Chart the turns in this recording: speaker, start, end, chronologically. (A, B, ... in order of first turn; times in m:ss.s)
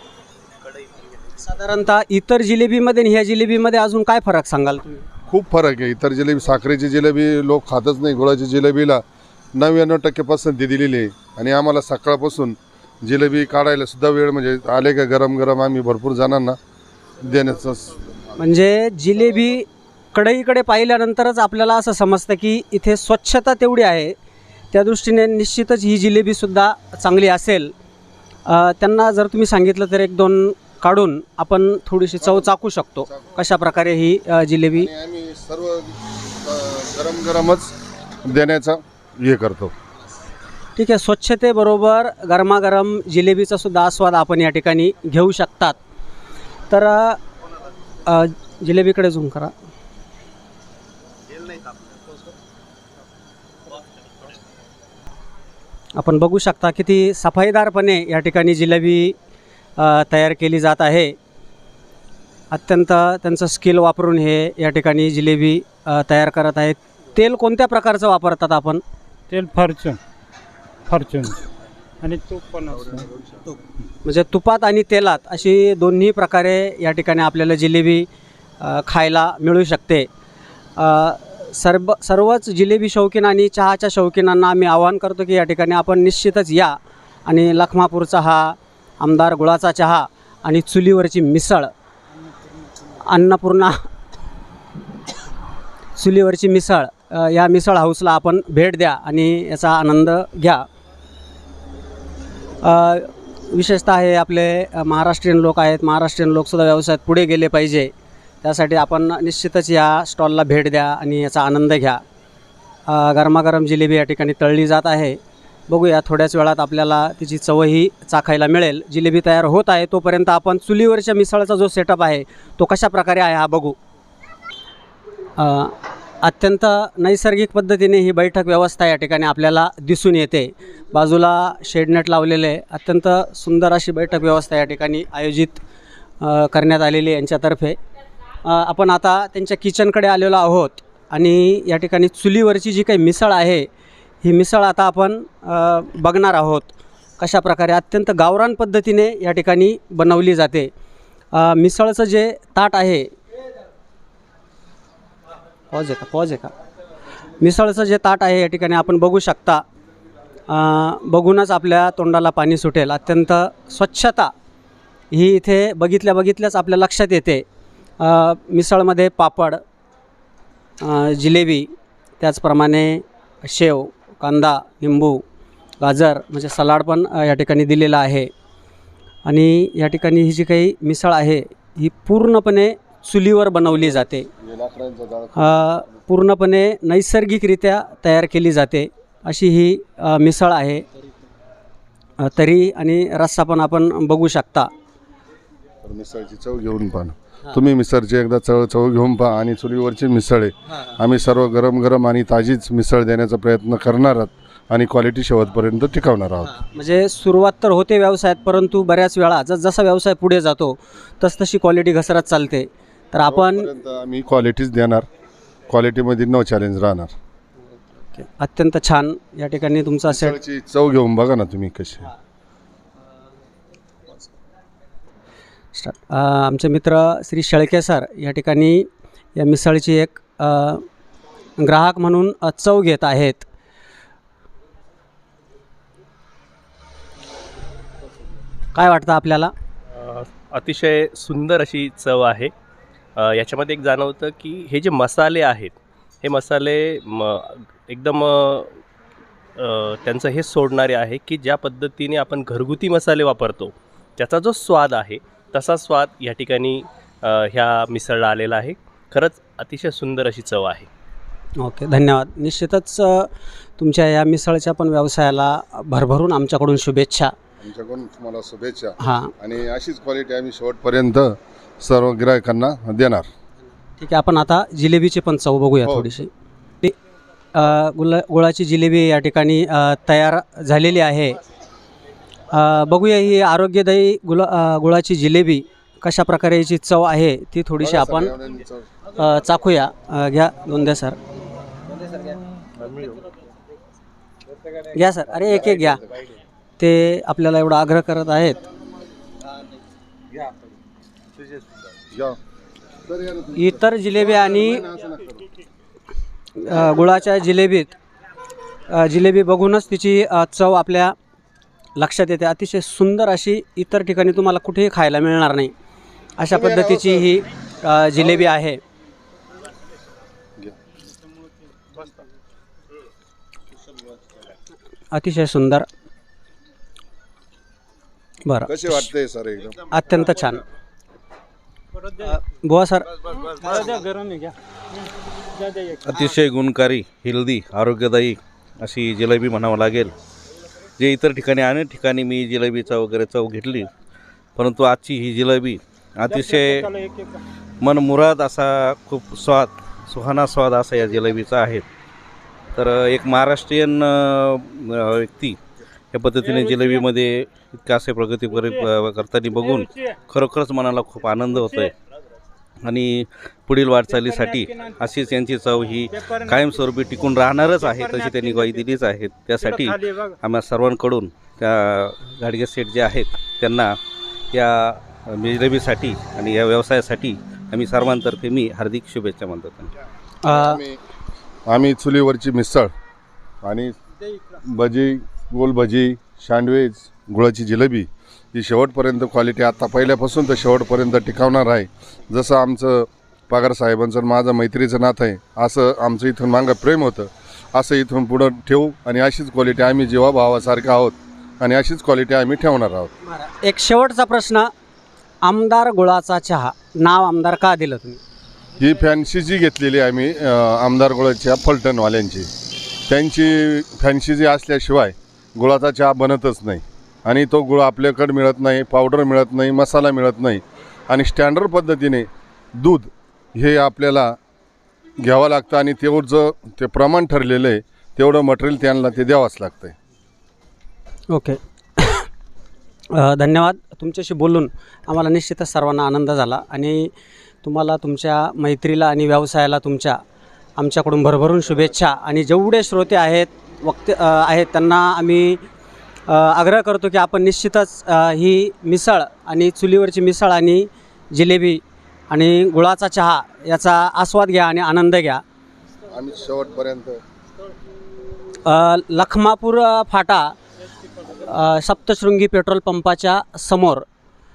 0:01.4-0:05.1 A
0:05.3-0:16.6 B
0:17.2-0:18.1 B
0:18.4-0:24.2 A
0:24.7-0:27.7 A
0:28.4-0:34.9 A
0:34.8-0:39.7 B
0:40.8-0:45.8 A
0:46.7-0:47.2 A
0:48.0-0:49.5 A
0:56.0-0:59.2 A
0:59.8-1:01.2 A
1:02.5-1:08.8 A
1:09.3-1:10.0 C
1:10.9-1:11.4 C
1:12.0-1:13.1 C
1:14.0-1:18.1 A
1:18.6-1:20.1 A
1:20.8-1:26.8 A
1:27.3-1:31.7 A
1:32.9-1:33.8 A
1:36.0-1:40.6 A
1:42.6-1:47.9 A
1:48.4-1:52.0 A
1:52.9-2:03.8 A
2:05.4-2:15.6 A
2:16.2-2:17.8 A
2:18.4-2:23.7 A
2:24.2-2:30.7 A
2:31.3-2:33.1 A
2:35.7-2:36.5 A
2:37.4-2:39.6 A
2:40.5-2:44.3 A
2:45.1-2:47.4 A
2:48.0-2:49.6 A
2:50.8-2:55.2 A
2:55.8-2:58.3 A
2:59.2-3:04.3 A
3:04.4-3:05.6 B
3:05.4-3:10.8 A
3:12.2-3:14.7 A
3:15.8-3:26.5 B
3:26.4-3:33.7 A
3:33.3-3:35.0 B
3:35.7-3:37.1 B
3:38.0-3:40.4 A
3:40.1-3:42.1 B
3:45.7-3:50.8 A
3:51.6-3:53.4 A
3:58.7-3:59.5 A
4:00.0-4:02.5 D
4:03.2-4:08.8 D
4:09.6-4:20.9 D
4:21.6-4:27.3 A
4:27.6-4:33.3 B
4:29.0-4:29.3 A
4:34.0-4:36.3 A
4:37.5-4:41.4 A
4:42.5-4:48.3 A
4:47.8-4:48.8 B
4:49.1-4:51.2 A
4:54.9-4:56.0 A
4:55.4-4:56.0 B
4:56.8-4:58.6 A
5:01.6-5:02.4 B
5:03.1-5:05.4 B
5:03.5-5:04.8 A
5:06.6-5:07.9 A
5:08.9-5:11.2 A
5:12.0-5:15.7 A
5:16.4-5:18.8 A
5:16.5-5:17.3 B
5:25.1-5:25.8 A
5:28.4-5:29.1 A
5:28.7-5:29.8 B
5:29.9-5:30.6 A
5:32.2-5:33.1 A
5:34.0-5:34.4 C
5:36.0-5:40.1 E
5:41.0-5:43.9 E
5:44.6-5:46.9 E
5:47.8-5:51.8 E
5:52.7-5:55.6 E
5:56.1-6:01.9 E
6:02.8-6:14.0 E
6:14.5-6:19.9 E
6:20.4-6:20.8 A
6:20.5-6:21.0 B
6:21.7-6:22.9 B
6:23.6-6:24.0 B
6:24.6-6:43.1 B
6:43.3-6:44.7 A
6:45.4-6:48.2 A
6:48.8-6:52.5 B
6:53.1-7:04.4 B
7:05.2-7:10.0 B
7:11.3-7:12.3 A
7:13.1-7:17.1 A
7:17.6-7:20.2 A
7:20.8-7:25.6 A
7:26.3-7:35.4 A
7:36.1-7:37.2 B
7:38.6-7:40.6 A
7:41.2-7:44.0 A